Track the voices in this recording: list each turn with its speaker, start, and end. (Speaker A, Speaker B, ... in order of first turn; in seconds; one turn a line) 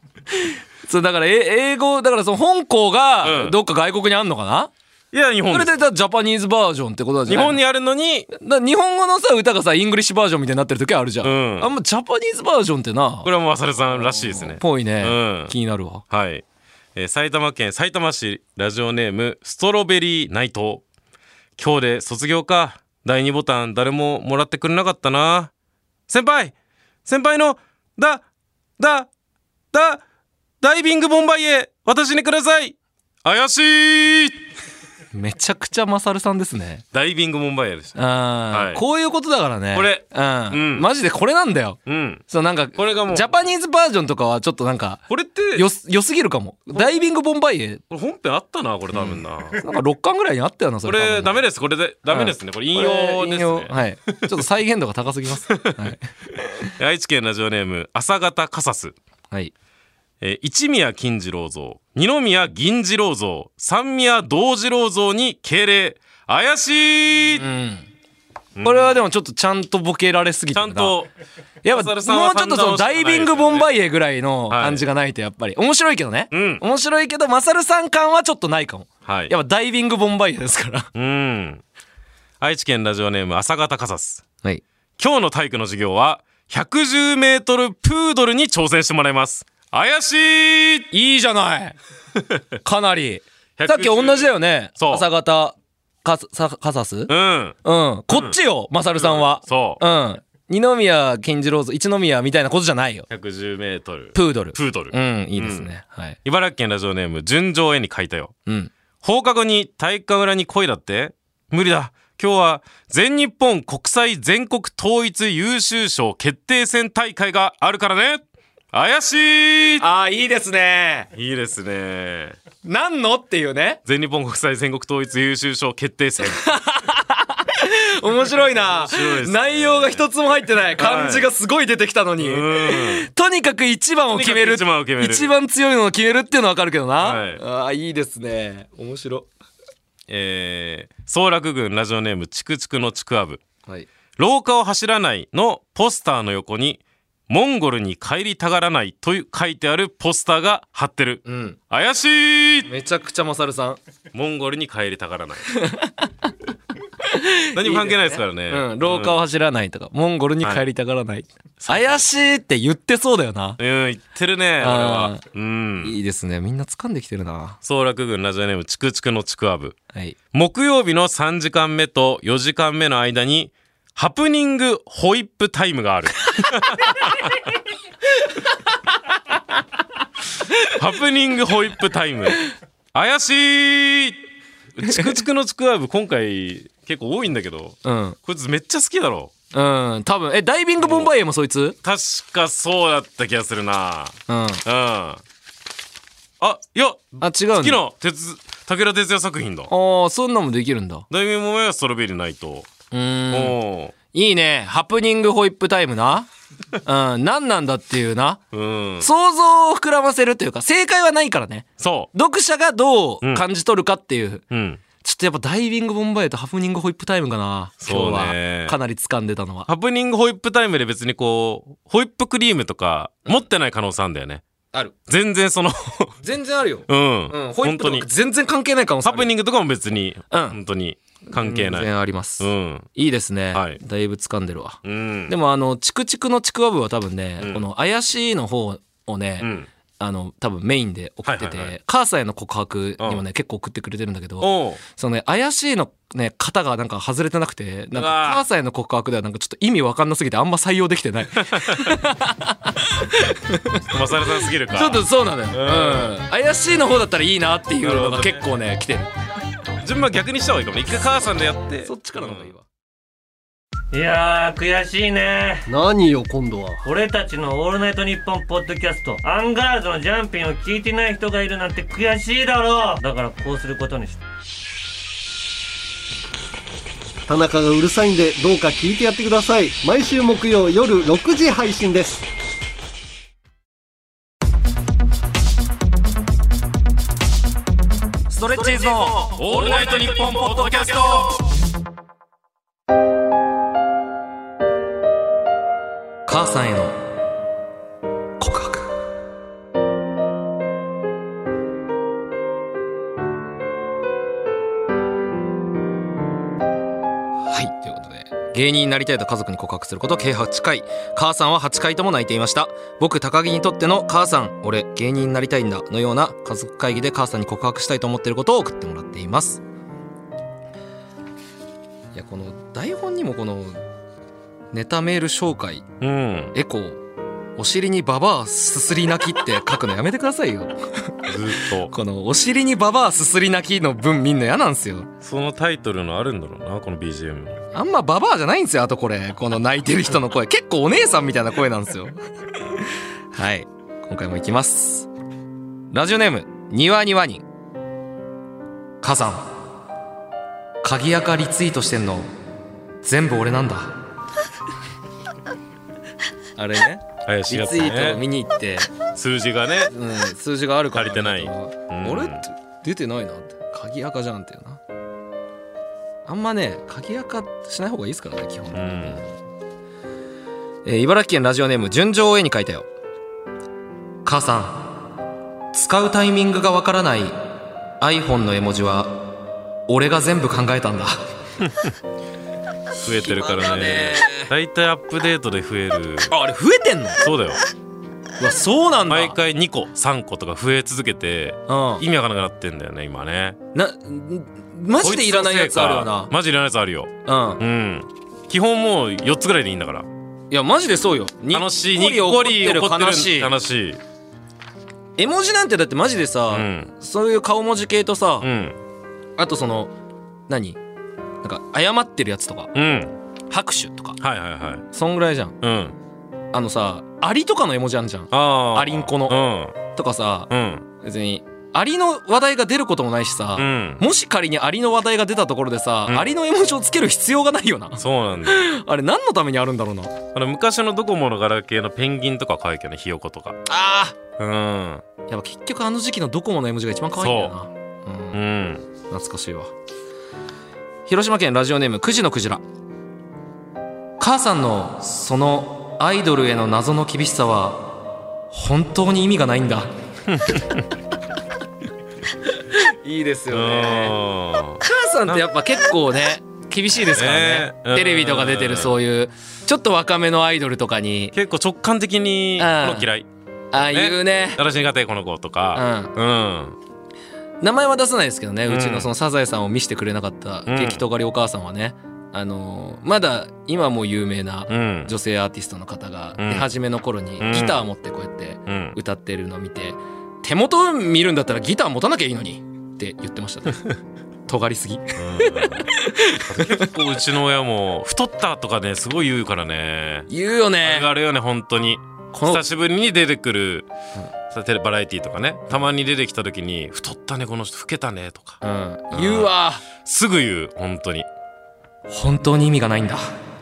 Speaker A: 0.4-4.7
Speaker B: 3.2-3.5
Speaker B: 5.1-5.7
Speaker A: 5.5-7.5
Speaker B: 7.3-8.3
Speaker A: 8.3-13.3
Speaker B: 11.2-11.7
Speaker B: 13.2-15.5
Speaker A: 13.9-16.0
Speaker B: 16.1-16.4
Speaker B: 16.9-20.8
Speaker B: 21.6-25.5
Speaker B: 26.1-26.5
Speaker B: 27.1-28.2
Speaker B: 28.8-29.1
Speaker B: 29.7-30.0
Speaker B: 30.6-34.4
Speaker A: 35.1-36.8
Speaker B: 36.9-38.0
Speaker A: 38.0-47.8
Speaker B: 38.5-38.8
Speaker B: 39.7-40.9
Speaker B: 41.9-42.2
Speaker B: 42.7-43.3
Speaker B: 45.1-45.6
Speaker B: 47.9-49.6
Speaker A: 48.9-51.4
Speaker B: 50.9-53.8
Speaker A: 52.1-56.7
Speaker B: 55.5-55.9
Speaker B: 56.8-59.0
Speaker B: 60.2-67.4
Speaker A: 67.4-67.9
Speaker B: 68.5-69.0
Speaker A: 68.6-70.9
Speaker B: 70.5-71.1
Speaker A: 71.6-80.9
Speaker B: 71.7-73.7
Speaker B: 74.5-74.8
Speaker B: 76.3-76.6
Speaker B: 79.0-79.3
Speaker B: 81.0-81.6
Speaker B: 82.4-84.2
Speaker B: 85.0-90.9
Speaker A: 90.9-91.7
Speaker A: 92.6-97.1
Speaker B: 93.6-95.0
Speaker B: 97.1-97.6
Speaker A: 97.6-103.1
Speaker B: 99.0-99.8
Speaker B: 103.1-105.7
Speaker A: 104.1-106.2
Speaker B: 106.2-108.3
Speaker B: 109.0-118.2
Speaker B: 118.7-119.8
Speaker A: 119.8-121.1
Speaker B: 121.1-122.4
Speaker A: 122.6-123.8
Speaker B: 123.9-126.5
Speaker A: 126.2-139.3
Speaker B: 128.6-130.1
Speaker B: 130.8-131.3
Speaker B: 132.2-133.1
Speaker B: 134.1-135.3
Speaker B: 137.0-137.4
Speaker B: 140.1-143.4
Speaker B: 144.2-152.7
Speaker A: 151.3-151.6
Speaker A: 152.7-153.8
Speaker B: 154.1-155.5
Speaker A: 155.6-155.9
Speaker A: 157.1-163.6
Speaker B: 157.6-159.2
Speaker B: 161.6-162.0
Speaker B: 163.6-165.9
Speaker A: 164.6-165.2
Speaker A: 165.8-167.6
Speaker B: 167.6-169.8
Speaker B: 170.3-177.3
Speaker B: 180.6-184.2
Speaker B: 184.8-189.3
Speaker A: 187.8-188.2
Speaker A: 189.5-191.8
Speaker B: 190.8-191.1
Speaker B: 191.8-195.2
Speaker A: 194.3-194.6
Speaker B: 196.4-199.7
Speaker A: 197.2-197.8
Speaker A: 199.7-201.1
Speaker B: 201.1-202.7
Speaker A: 202.9-203.6
Speaker B: 203.3-203.9
Speaker A: 204.1-206.3
Speaker A: 206.8-208.4
Speaker B: 208.5-209.1
Speaker A: 209.0-214.4
Speaker B: 211.8-212.1
Speaker B: 214.5-214.8
Speaker A: 215.0-219.7
Speaker B: 217.8-218.8
Speaker B: 219.7-224.4
Speaker B: 225.1-226.2
Speaker A: 226.2-229.3
Speaker B: 226.9-228.1
Speaker B: 229.0-232.9
Speaker A: 230.3-230.6
Speaker A: 231.4-253.8
Speaker B: 233.5-233.8
Speaker B: 234.8-235.3
Speaker B: 239.4-239.7
Speaker B: 241.3-241.7
Speaker B: 244.4-244.8
Speaker B: 247.9-248.4
Speaker B: 251.5-252.0
Speaker B: 253.9-256.1
Speaker A: 254.7-259.1
Speaker B: 257.8-258.5
Speaker B: 259.8-262.5
Speaker A: 261.8-262.6
Speaker C: 263.9-265.7
Speaker D: 265.7-266.8
Speaker C: 266.8-274.2
Speaker D: 277.3-282.2
Speaker A: 288.3-289.3
Speaker B: 289.1-291.4
Speaker A: 296.3-297.0
Speaker A: 298.4-298.9
Speaker A: 307.4-319.6
Speaker A: 322.1-323.8
Speaker A: 324.7-325.9
Speaker B: 326.0-326.5
Speaker A: 326.5-327.0
Speaker A: 327.6-331.1
Speaker B: 331.3-331.9
Speaker A: 331.9-335.1
Speaker B: 335.2-337.6
Speaker A: 337.7-342.2
Speaker A: 343.3-345.1
Speaker A: 345.9-347.4
Speaker A: 349.0-349.4
Speaker A: 350.8-352.3
Speaker A: 353.0-353.9
Speaker A: 356.6-358.9
Speaker B: 357.3-358.2
Speaker B: 359.1-359.9
Speaker A: 359.9-364.8
Speaker B: 360.9-362.4
Speaker A: 366.3-369.3
Speaker B: 368.7-369.2
Speaker A: 370.8-372.9
Speaker A: 374.2-374.9
Speaker A: 375.7-377.4
Speaker A: 378.0-379.2
Speaker A: 379.9-381.2
Speaker B: 383.0-386.3
Speaker A: 383.0-384.5
Speaker A: 386.3-387.2
Speaker B: 387.2-387.6
Speaker A: 388.4-389.4
Speaker B: 389.1-393.6
Speaker A: 391.7-392.0
Speaker A: 393.7-396.3
Speaker B: 395.0-400.1
Speaker A: 397.3-397.6
Speaker A: 400.5-403.5
Speaker B: 401.5-404.0
Speaker A: 405.2-408.5
Speaker B: 406.5-406.9
Speaker B: 408.4-408.8
Speaker A: 409.4-409.9
Speaker A: 410.5-410.8
Speaker A: 411.4-412.7
Speaker B: 412.7-413.1
Speaker A: 413.5-414.2
Speaker B: 414.2-414.9
Speaker A: 414.9-415.6
Speaker B: 415.6-415.9
Speaker A: 416.5-419.4
Speaker B: 418.3-419.8
Speaker A: 419.9-420.5
Speaker B: 420.5-420.9
Speaker A: 421.0-430.2
Speaker B: 423.6-424.0
Speaker B: 428.0-428.7
Speaker B: 430.3-433.6
Speaker A: 433.7-434.2
Speaker B: 434.4-435.0
Speaker A: 435.3-438.4
Speaker B: 437.2-437.5
Speaker B: 438.3-438.8
Speaker A: 439.1-439.7
Speaker A: 441.1-442.6
Speaker A: 444.2-447.9
Speaker A: 448.5-449.9
Speaker B: 450.3-450.8
Speaker A: 452.5-454.2
Speaker B: 453.5-455.4
Speaker A: 454.8-461.3
Speaker B: 457.1-458.9
Speaker B: 461.3-463.3
Speaker A: 462.6-463.1
Speaker A: 463.7-464.6
Speaker B: 463.9-466.8
Speaker A: 465.7-466.1
Speaker A: 467.6-483.9
Speaker B: 468.7-469.1
Speaker B: 470.7-471.0
Speaker B: 474.7-475.1
Speaker B: 476.4-476.7
Speaker B: 477.4-477.8
Speaker B: 478.7-478.9
Speaker A: 484.5-486.9
Speaker B: 485.2-485.9
Speaker B: 486.4-490.3
Speaker A: 490.3-491.1
Speaker B: 490.8-493.9
Speaker A: 492.3-492.6
Speaker B: 494.5-498.6
Speaker A: 498.6-499.8
Speaker B: 499.1-501.3
Speaker A: 502.1-503.3